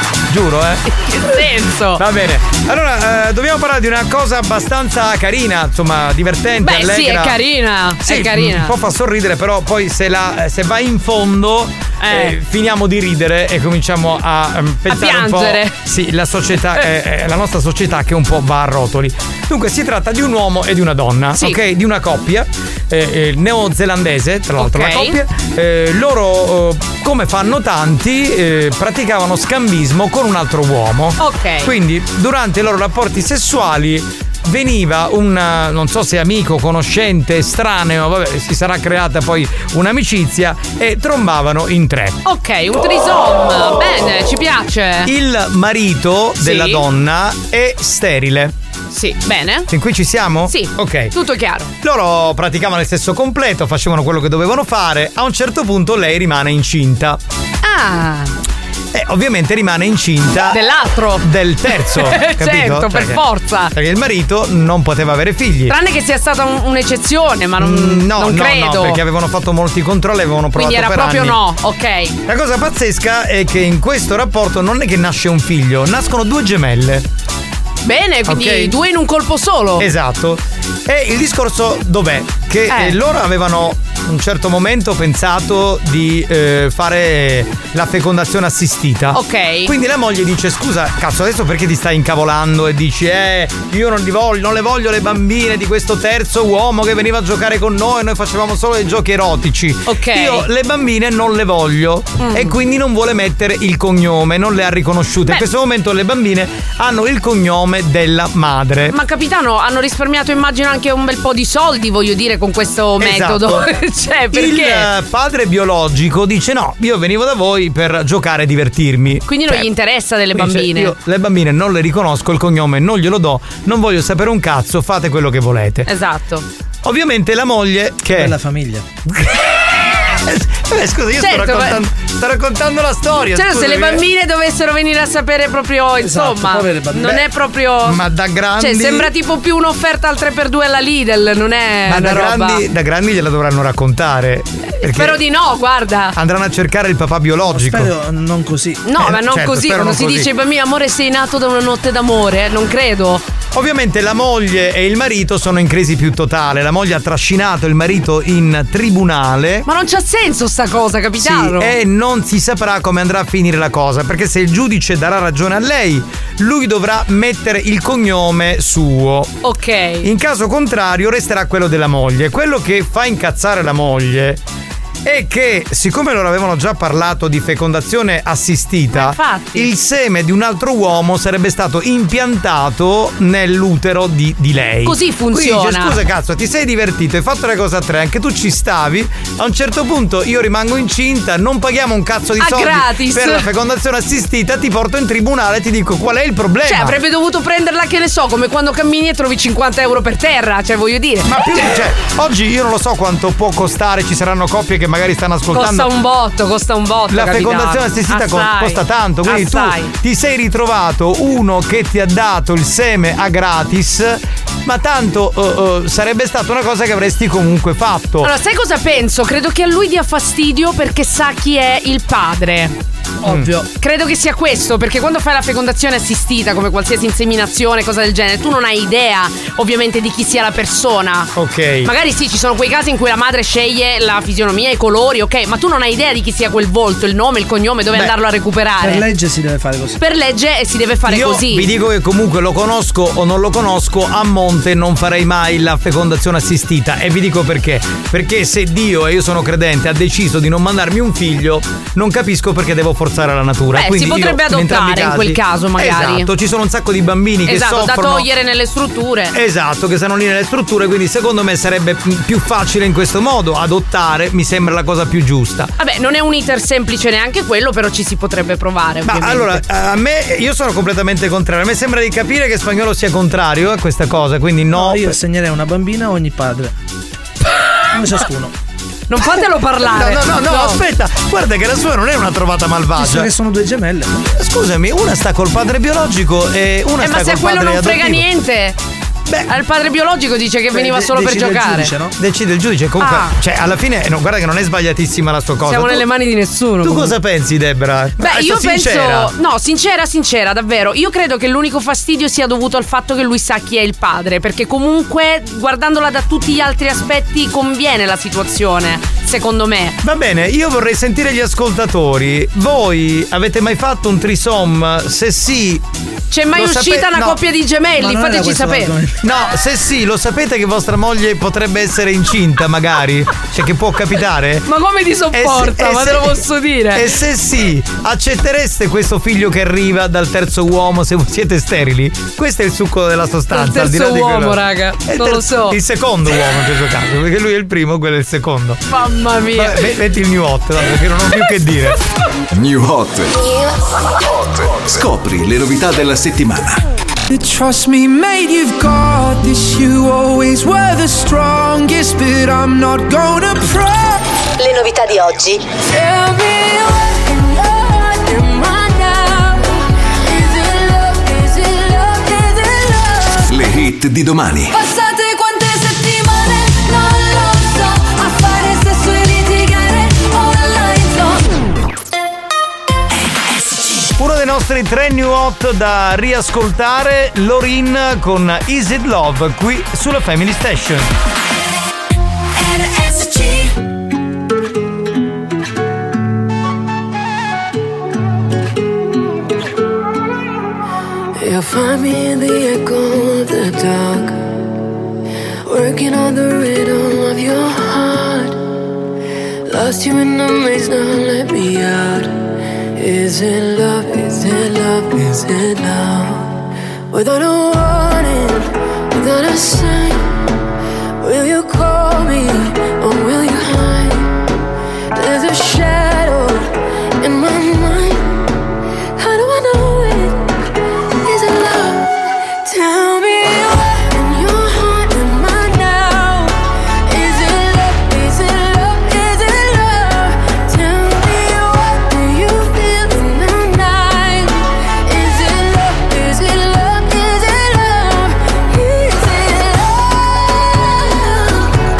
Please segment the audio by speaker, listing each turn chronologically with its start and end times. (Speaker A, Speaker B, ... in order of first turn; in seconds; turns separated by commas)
Speaker A: 0.3-1.4, Speaker B: 0.9-2.0, Speaker A: 1.9-7.4, Speaker B: 6.6-8.7, Speaker A: 8.0-42.2, Speaker B: 12.0-12.3, Speaker B: 14.9-15.7, Speaker B: 24.6-25.1, Speaker B: 31.2-31.7, Speaker B: 42.2-45.1, Speaker A: 45.0-48.5, Speaker B: 46.4-46.8, Speaker B: 48.9-49.7, Speaker A: 49.7-51.1, Speaker B: 50.5-51.7, Speaker A: 51.8-57.2, Speaker B: 57.6-58.3, Speaker A: 58.9-60.6, Speaker B: 60.5-63.7, Speaker A: 61.2-65.7, Speaker B: 65.7-69.0, Speaker A: 67.6-71.4, Speaker B: 70.5-72.2, Speaker A: 72.3-77.0, Speaker B: 77.8-79.8, Speaker A: 78.3-78.7, Speaker A: 79.8-108.9, Speaker B: 82.7-83.0, Speaker B: 89.1-89.7, Speaker B: 99.9-100.5, Speaker B: 102.2-102.5, Speaker B: 108.9-114.9, Speaker A: 113.0-113.6, Speaker A: 114.3-119.7, Speaker B: 119.3-120.9, Speaker A: 120.3-125.9, Speaker B: 125.8-126.4, Speaker A: 126.8-128.4, Speaker C: 128.1-128.8, Speaker A: 129.1-134.0, Speaker B: 131.2-131.8, Speaker B: 133.3-138.0, Speaker C: 136.0-137.2, Speaker A: 137.8-139.1, Speaker B: 138.6-142.6, Speaker A: 141.9-145.2, Speaker B: 144.8-146.1, Speaker A: 146.2-147.9, Speaker C: 147.5-148.8, Speaker B: 148.8-153.2, Speaker A: 149.0-150.3, Speaker A: 153.5-159.7, Speaker B: 159.7-161.7, Speaker A: 161.2-169.3, Speaker B: 169.4-170.1, Speaker A: 170.0-174.4, Speaker A: 175.0-197.0, Speaker B: 178.9-179.7, Speaker B: 184.8-185.9, Speaker B: 192.4-193.4, Speaker B: 196.6-201.3, Speaker A: 201.2-205.9, Speaker B: 205.5-209.9, Speaker A: 207.1-218.3, Speaker B: 218.2-222.7, Speaker A: 223.2-223.5, Speaker C: 223.2-223.6, Speaker B: 223.8-231.3, Speaker A: 231.3-231.9, Speaker B: 231.8-239.0, Speaker C: 238.8-240.0, Speaker B: 240.0-241.7, Speaker A: 241.1-258.3, Speaker B: 253.7-256.3, Speaker B: 257.5-259.3, Speaker A: 259.3-265.7, Speaker B: 265.8-269.6, Speaker A: 269.0-275.1, Speaker C: 274.7-276.7, Speaker C: 277.9-278.5, Speaker B: 279.1-280.8, Speaker A: 279.9-283.3, Speaker C: 282.9-284.1, Speaker A: 284.3-288.2, Speaker B: 287.0-288.8, Speaker B: 289.5-291.9, Speaker C: 290.7-292.1, Speaker A: 292.2-296.0, Speaker B: 293.0-293.3, Speaker B: 295.6-297.1, Speaker A: 296.8-299.3, Speaker B: 298.2-309.9, Speaker A: 310.0-315.8, Speaker B: 316.3-318.9, Speaker A: 316.5-317.4, Speaker C: 318.0-319.2, Speaker A: 319.2-324.6, Speaker B: 324.6-327.0, Speaker A: 325.3-326.4, Speaker A: 326.9-338.8, Speaker B: 333.5-335.8, Speaker B: 338.9-339.9, Speaker A: 339.5-342.0, Speaker D: 342.5-343.4, Speaker E: 343.4-343.7, Speaker D: 344.9-346.8, Speaker F: 347.3-353.0, Speaker E: 355.9-359.6, Speaker E: 360.2-363.5, Speaker D: 363.5-364.7, Speaker G: 364.8-371.4, Speaker G: 373.5-374.0, Speaker A: 374.2-381.1, Speaker G: 382.6-383.7, Speaker E: 391.4-394.4, Speaker E: 395.6-398.6, Speaker E: 399.7-402.3, Speaker E: 402.9-406.5, Speaker E: 407.1-410.3, Speaker E: 411.2-414.3, Speaker E: 415.1-418.4, Speaker E: 419.2-420.5, Speaker E: 421.2-422.1, Speaker E: 422.6-441.7